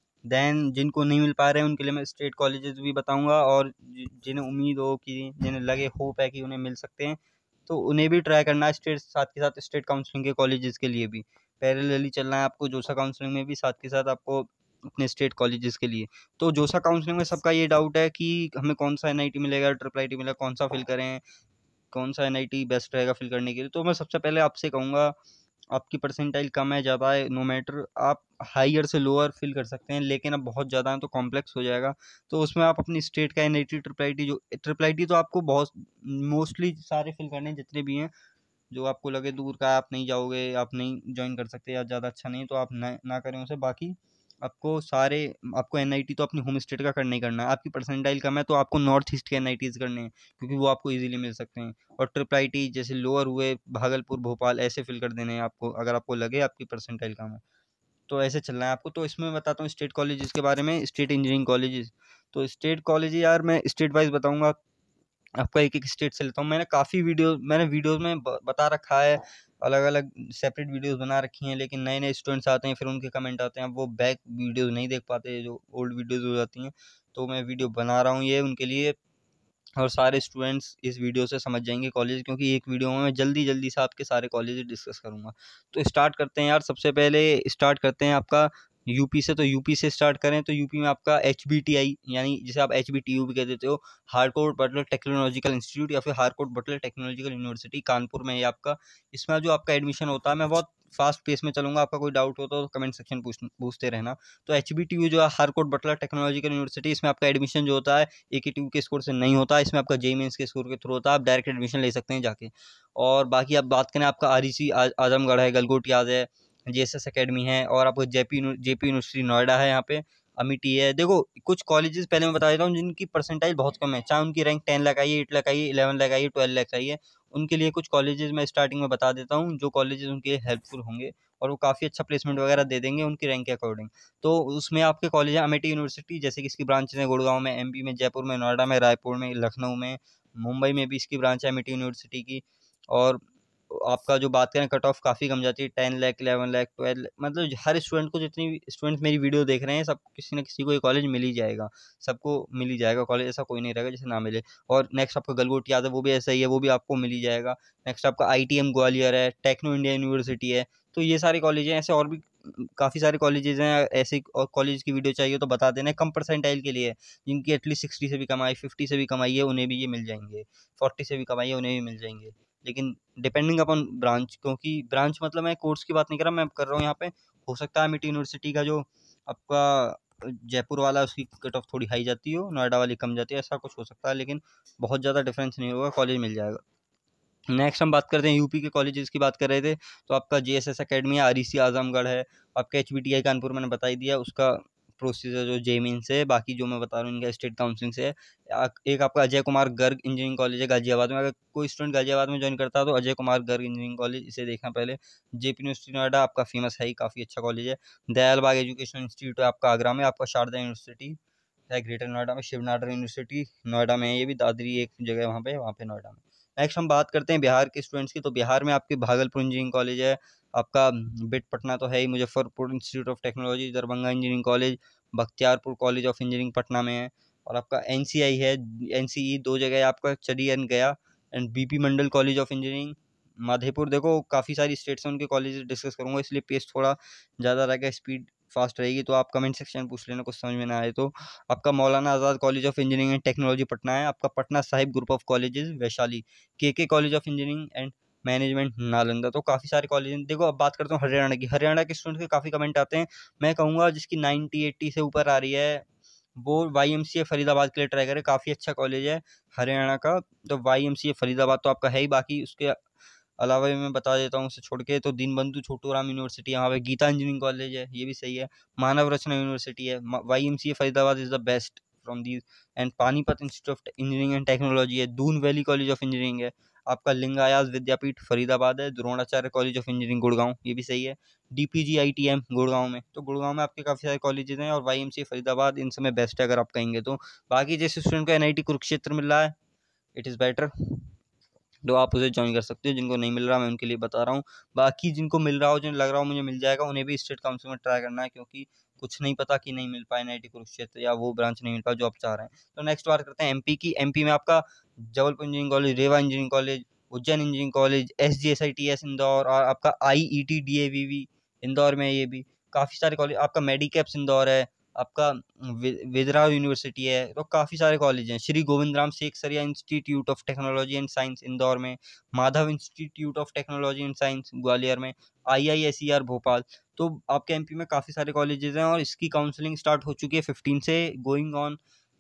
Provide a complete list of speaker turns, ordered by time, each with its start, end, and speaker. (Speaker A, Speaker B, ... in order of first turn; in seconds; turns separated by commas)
Speaker A: 0.3-21.2, Speaker A: 21.9-25.1, Speaker A: 25.7-38.1, Speaker A: 38.7-57.4, Speaker A: 58.1-64.6, Speaker A: 65.4-79.0, Speaker A: 79.8-186.6, Speaker A: 187.5-255.8, Speaker A: 256.4-262.8, Speaker A: 263.4-289.5, Speaker A: 290.2-291.1, Speaker A: 291.9-331.8